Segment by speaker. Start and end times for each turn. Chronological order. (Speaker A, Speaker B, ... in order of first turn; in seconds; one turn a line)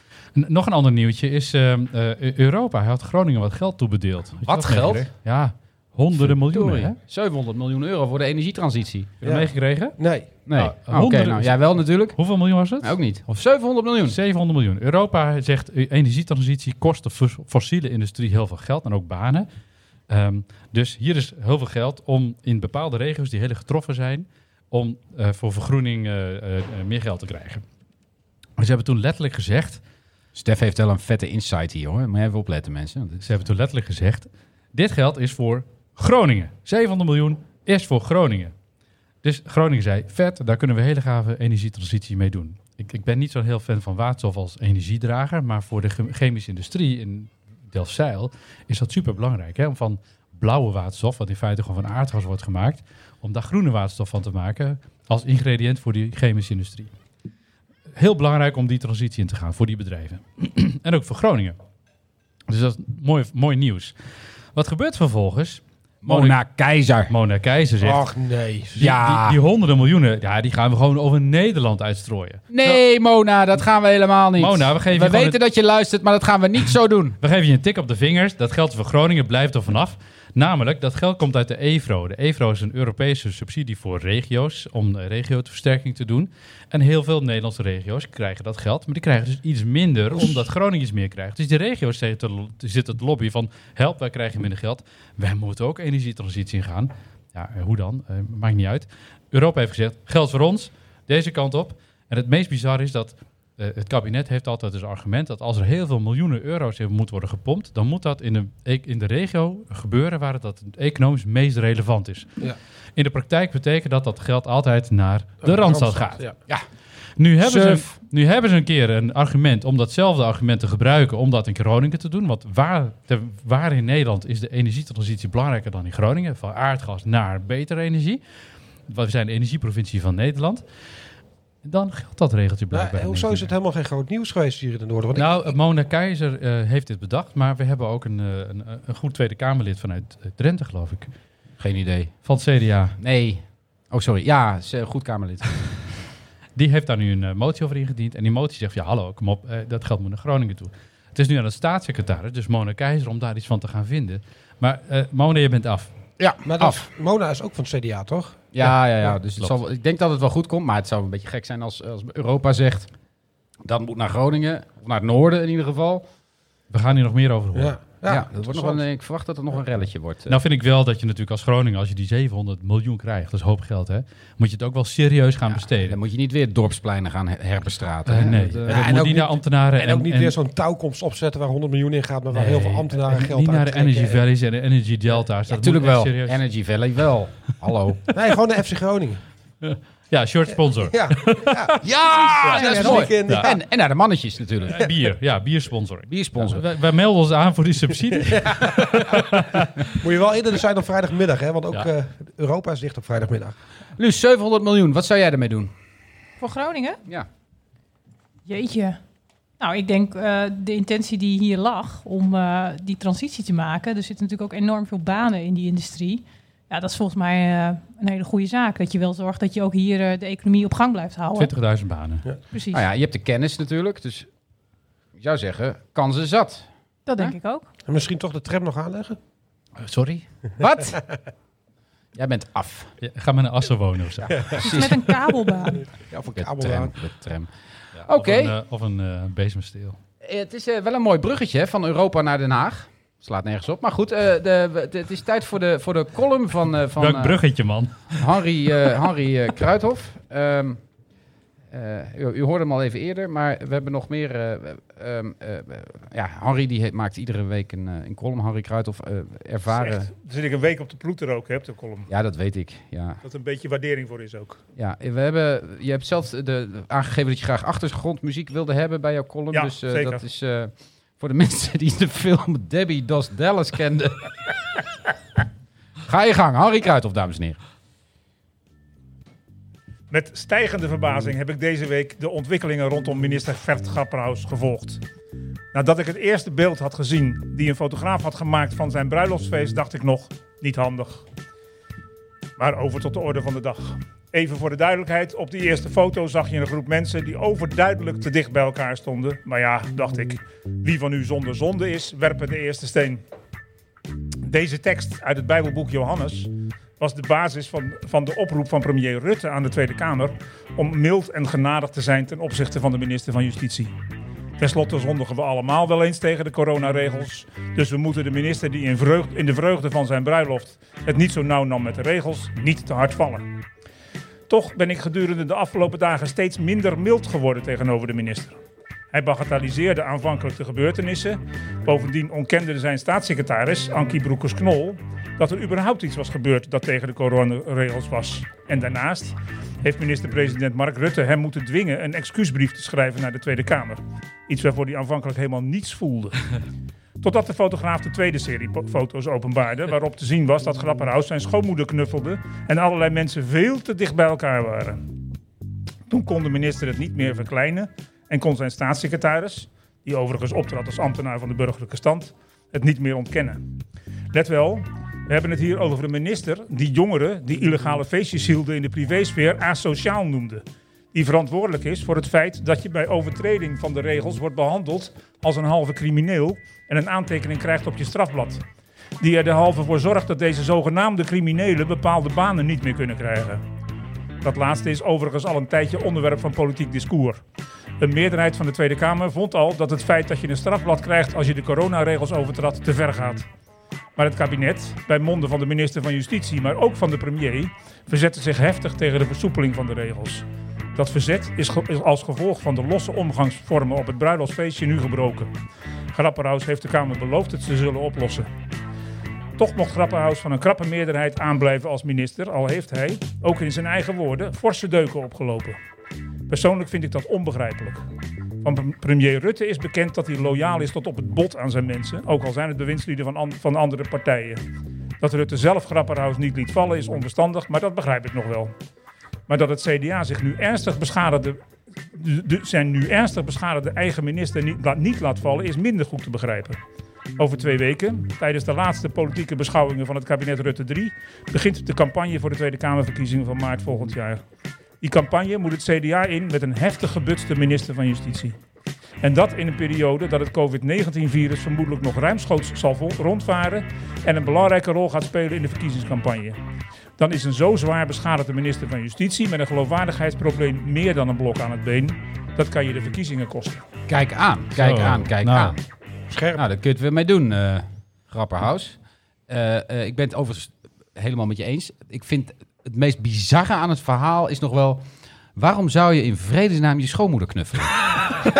Speaker A: 0.3-7.0
Speaker B: 4.4-5.1
Speaker B: 6.2-9.1
Speaker A: 9.2-10.0
Speaker C: 9.2-10.3
Speaker B: 10.5-12.2
Speaker A: 10.6-13.0
Speaker B: 12.8-14.2
Speaker A: 14.1-19.5
Speaker A: 20.1-27.6
Speaker A: 28.6-29.8
Speaker B: 30.4-33.3
Speaker A: 33.2-38.5
Speaker A: 39.2-56.9
Speaker A: 58.0-61.6
Speaker A: 62.5-64.0
Speaker A: 64.5-66.4
Speaker B: 66.0-67.1
Speaker A: 67.1-68.0
Speaker C: 67.8-68.8
Speaker A: 68.8-72.8
Speaker B: 68.8-69.4
Speaker B: 72.5-77.2
Speaker A: 74.4-75.4
Speaker A: 77.2-112.3
Speaker A: 113.0-116.2
Speaker C: 115.4-116.3
Speaker A: 117.2-128.2
Speaker B: 117.4-118.0
Speaker A: 128.9-130.6
Speaker A: 131.6-133.5
Speaker C: 132.7-135.5
Speaker A: 135.2-141.1
Speaker B: 141.6-142.2
Speaker A: 142.2-143.0
Speaker B: 143.0-145.6
Speaker A: 146.6-155.9
Speaker B: 156.2-156.9
Speaker C: 156.4-158.4
Speaker B: 158.5-162.9
Speaker A: 158.6-159.5
Speaker B: 163.7-166.1
Speaker A: 166.7-167.8
Speaker C: 167.5-168.8
Speaker B: 168.1-170.4
Speaker A: 170.3-176.0
Speaker B: 175.6-179.0
Speaker A: 178.1-180.3
Speaker C: 178.7-184.2
Speaker A: 182.3-186.4
Speaker B: 185.5-188.0
Speaker C: 188.1-189.2
Speaker A: 189.6-191.6
Speaker C: 190.8-193.6
Speaker B: 191.8-194.8
Speaker A: 192.4-193.5
Speaker A: 194.7-199.8
Speaker B: 196.1-196.6
Speaker C: 198.1-203.6
Speaker B: 204.0-205.7
Speaker D: 206.4-207.0
Speaker D: 208.5-209.0
Speaker D: 209.6-221.5
Speaker A: 221.3-222.3
Speaker D: 222.5-222.8
Speaker B: 222.7-224.3
Speaker B: 225.2-226.7
Speaker D: 227.1-227.7
Speaker C: 227.9-229.2
Speaker A: 229.8-230.2
Speaker B: 230.6-231.0
Speaker B: 232.2-232.9
Speaker A: 233.0-234.6
Speaker C: 234.3-234.6
Speaker B: 234.5-235.1
Speaker D: 234.6-235.9
Speaker C: 236.1-236.9
Speaker B: 236.4-237.5
Speaker A: 238.0-240.0
Speaker B: 238.1-238.5
Speaker B: 240.2-247.4
Speaker A: 247.0-248.2
Speaker B: 248.1-250.8
Speaker B: 251.7-260.1
Speaker E: 259.7-262.1
Speaker B: 262.1-263.2
Speaker E: 263.2-264.6
Speaker B: 264.8-274.3
Speaker E: 269.5-270.2
Speaker B: 276.1-277.6
Speaker E: 280.1-285.0
Speaker E: 285.7-291.2
Speaker E: 292.6-303.2
Speaker E: 304.4-313.9
Speaker E: 314.6-323.5
Speaker E: 324.5-328.6
Speaker E: 329.1-346.4
Speaker E: 347.2-355.0
Speaker E: 356.1-363.7
Speaker E: 364.3-378.6
Speaker E: 379.2-383.6
Speaker E: 384.4-387.4
Speaker E: 388.0-393.5
Speaker E: 394.2-405.5
Speaker E: 406.1-408.5
Speaker E: 409.6-415.8
Speaker E: 416.5-418.0
Speaker E: 418.6-424.6
Speaker E: 425.2-428.7
Speaker E: 429.5-431.6
Speaker E: 432.1-436.8
Speaker E: 437.4-444.4
Speaker E: 445.0-448.6
Speaker E: 449.2-456.6
Speaker E: 457.2-463.8
Speaker B: 464.1-465.8
Speaker A: 464.8-465.8
Speaker C: 466.3-466.6
Speaker B: 466.6-475.0
Speaker B: 475.6-478.0